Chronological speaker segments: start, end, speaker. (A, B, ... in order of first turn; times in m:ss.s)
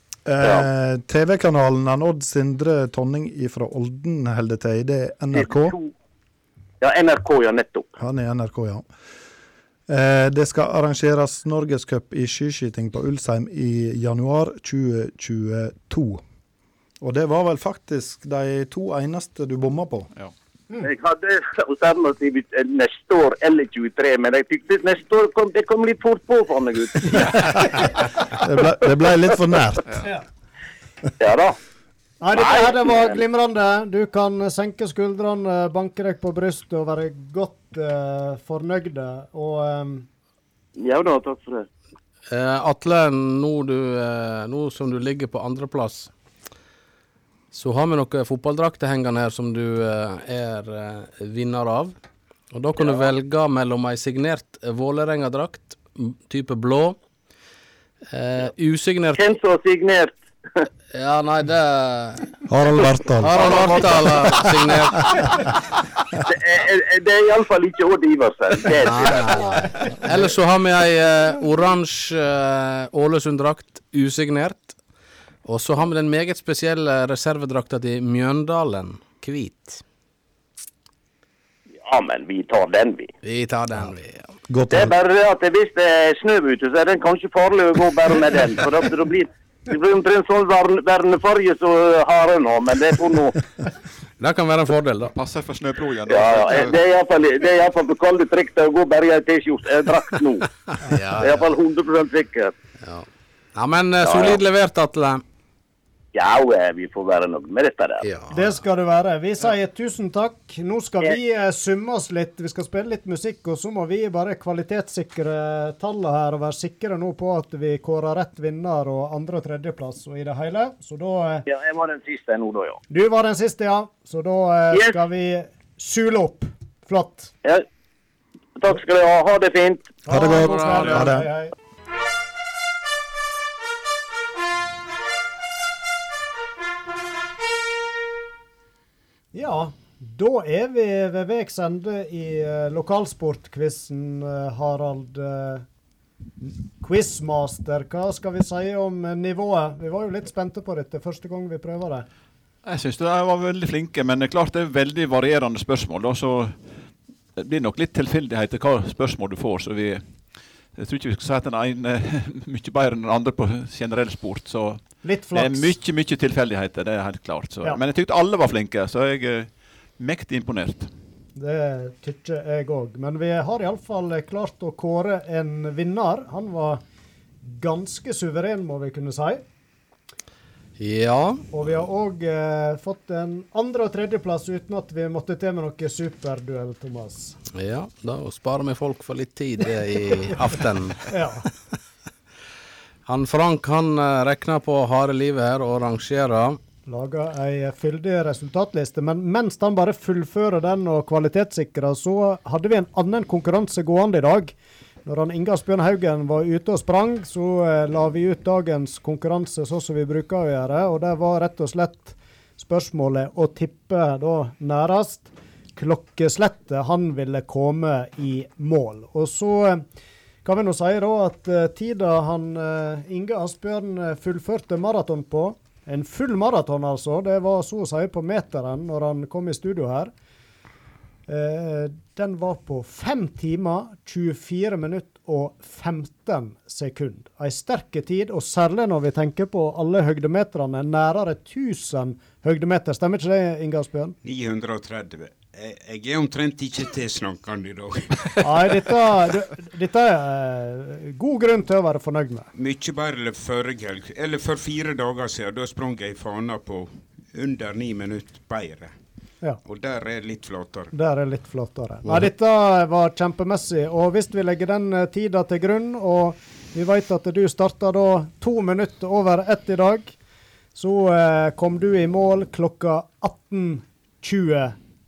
0:00.2-0:05.8 A
0:05.3-0:05.9 B
0:06.8-0:07.9 B
0:08.0-0:08.8 A
0:09.9-0:16.2 A
0:17.0-0:20.1 A
0:20.8-0:27.5 B
0:27.2-0:28.0 C
0:27.6-0:29.8 A
0:31.2-0:31.6 B
0:32.2-0:40.1 C
0:32.3-0:33.2 B
0:40.8-0:41.6 B
0:42.3-0:46.1 D
0:47.5-0:51.9 D
0:52.5-0:57.0 D
0:58.1-0:59.2 D
0:59.2-1:00.2 B
1:00.9-1:02.4 D
1:02.5-1:04.8 A
1:03.2-1:05.2 D
1:06.3-1:09.6 B
1:08.8-1:14.7 D
1:15.4-1:19.8 D
1:21.8-1:23.1 B
1:23.2-1:24.3 D
1:24.5-1:24.9 A
1:24.7-1:33.4 B
1:34.2-1:35.1 D
1:35.1-1:36.8 E
1:36.1-1:40.5 B
1:40.7-1:41.4 D
1:41.2-1:42.5 B
1:42.8-1:45.2 D
1:44.0-1:44.4 B
1:46.1-1:48.0 B
1:48.0-1:48.6 D
1:48.3-2:01.4 C
2:01.4-2:02.8 B
2:02.9-2:07.3 C
2:08.6-2:10.0 B
2:10.0-2:11.5 C
2:10.1-2:11.3 A
2:10.3-2:10.6 D
2:19.3-2:25.6 C
2:26.4-2:32.0 C
2:32.6-2:36.6 E
2:37.4-2:40.0 E
2:40.8-2:50.9 E
2:45.0-2:45.7 C
2:51.4-2:56.8 C
2:57.4-2:59.4 C
3:00.8-3:01.4 D
3:01.5-3:07.4 C
3:07.5-3:11.0 D
3:11.1-3:11.4 C
3:13.0-3:16.6 D
3:16.8-3:24.5 C
3:25.0-3:39.8 C
3:40.4-3:50.1 C
3:51.3-4:04.2 C
4:04.2-4:08.8 F
4:08.4-4:12.5 C
4:12.5-4:18.9 F
4:19.6-4:20.9 F
4:20.9-4:30.2 C
4:30.7-4:34.8 C